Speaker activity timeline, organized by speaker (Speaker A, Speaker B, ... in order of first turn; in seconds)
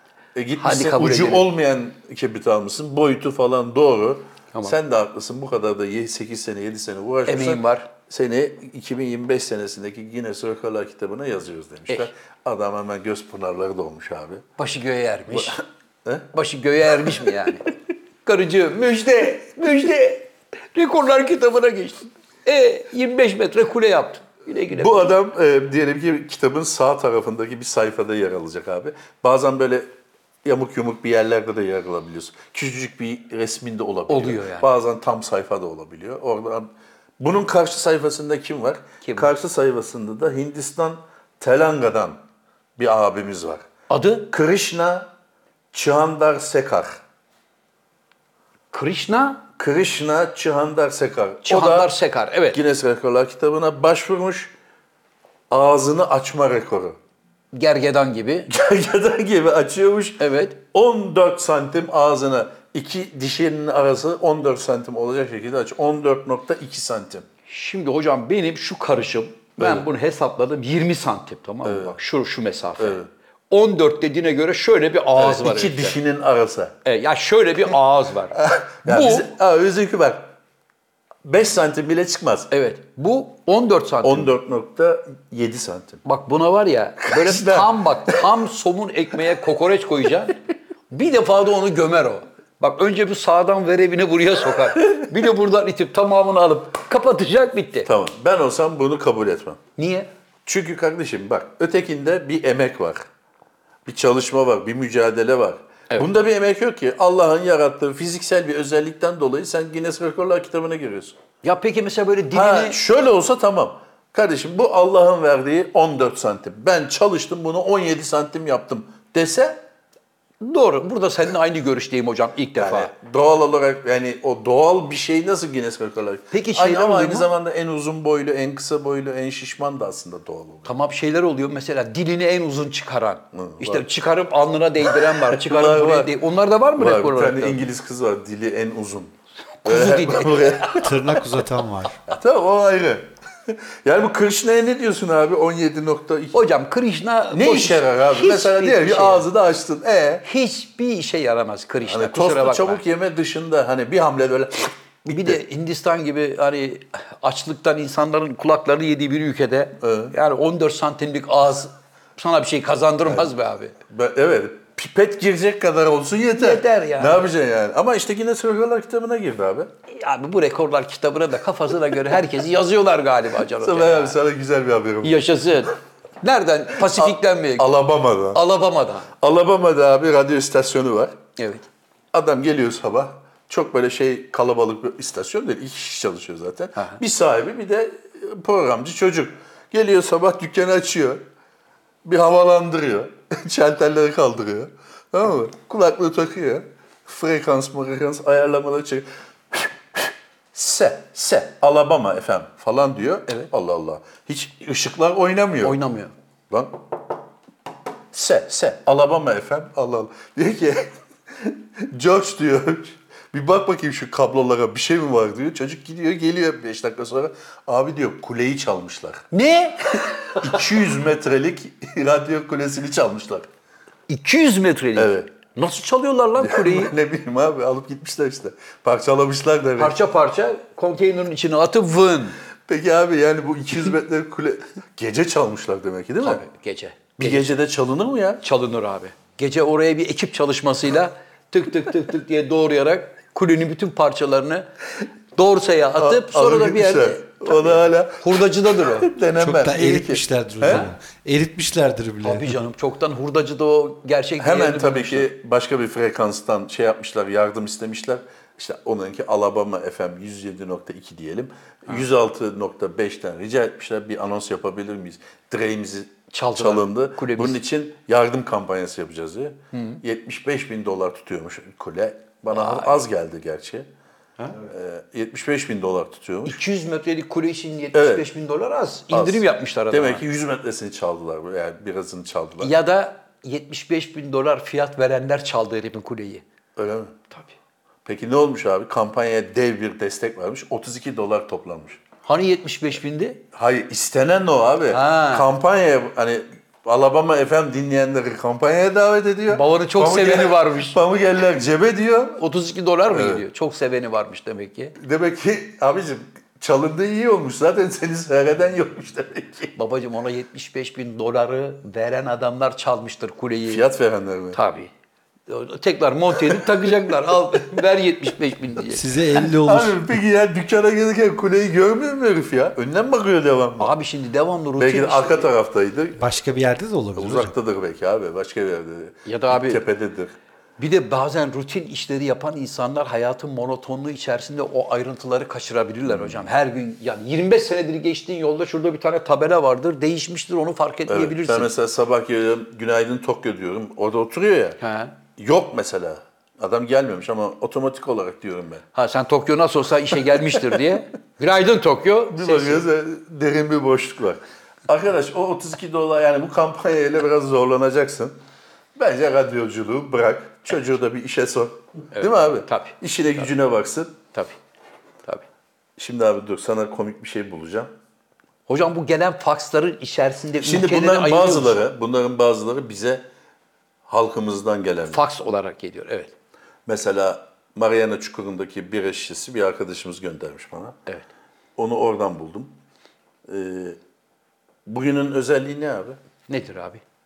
Speaker A: 0.3-14.4, 15.3-16.3, 17.0-17.3, 24.7-29.9, 30.4-42.2, 42.8-43.6, 44.3-45.1, 45.7-47.0, 49.6-51.9, 52.5-54.5, 55.5-57.0, 58.5-67.2, 69.6-69.9, 71.6-72.0, 72.8-73.1, 75.2-76.7, 78.3-80.3, 81.2-82.5, 84.0-86.0, 87.0-88.3, 97.8-99.6, 100.4-103.0, 103.8-111.1, 112.3-119.6, 122.5-130.7, 133.3-133.9, 134.9-136.2, 136.8-139.1, 139.7-141.0, 142.1-146.4, 147.3-150.2, 151.8-155.4, 159.8-160.1, 163.0-169.7, 173.6-175.3, 176.8-178.4, 179.2-181.2, 182.1-191.2, 192.0-205.8, 206.5-206.8, 208.1-219.2, 220.4-223.5, 224.9-225.3, 226.4-230.0, 232.7-236.4, 237.2-238.4, 246.0-250.9, 254.4-273.9, 274.5-276.6, 277.9-278.3, 279.1-282.7, 286.8-287.2, 288.0-292.0, 293.5-302.4, 303.1-303.4, 305.0-309.7, 313.7-314.6, 319.4-323.9, 324.8-326.3, 327.1-330.3, 336.1-336.4, 341.1-344.8, 345.4-348.8, 352.3-358.4, 358.9-364.1, 366.0-367.9, 370.6-373.2, 374.1-375.2, 376.9-380.9, 381.8-382.7, 383.4-384.0, 384.9-386.2
Speaker B: 0.6-1.4, 7.2-7.9, 14.6-15.6, 16.3-17.7, 18.2-25.1, 34.1-34.7, 39.0-39.3, 43.9-44.3, 48.7-49.4, 51.4-52.6, 57.5-58.5, 60.2-60.5, 67.5-76.0, 76.8-79.3, 82.5-84.3, 86.0-90.4, 90.9-97.9, 99.8-100.1, 111.4-112.8, 120.4-122.9, 126.3-127.3, 130.6-137.6, 139.6-141.1, 146.3-149.3, 150.2-152.8, 155.1-163.8, 166.4-167.2, 169.9-174.2, 175.0-177.7, 178.3-179.1, 181.4-181.6, 205.6-206.1, 219.3-220.6, 224.1-226.9, 229.8-232.3, 236.2-237.5, 238.4-244.7, 245.3-249.1, 252.2-255.3, 266.3-267.6, 269.7-270.0, 272.5-273.0, 276.4-280.2, 282.6-286.4, 292.2-293.4, 294.9-295.5, 299.5-301.0, 302.4-305.0, 309.8-313.8, 314.5-314.9, 315.5-319.0, 323.8-325.5, 329.2-329.8, 330.8-341.7, 344.8-345.1, 348.9-352.8, 362.1-363.4, 368.7-371.9, 375.1-376.3, 386.5-387.0
Speaker C: 140.8-142.0, 249.4-252.6, 318.8-320.1, 326.2-327.5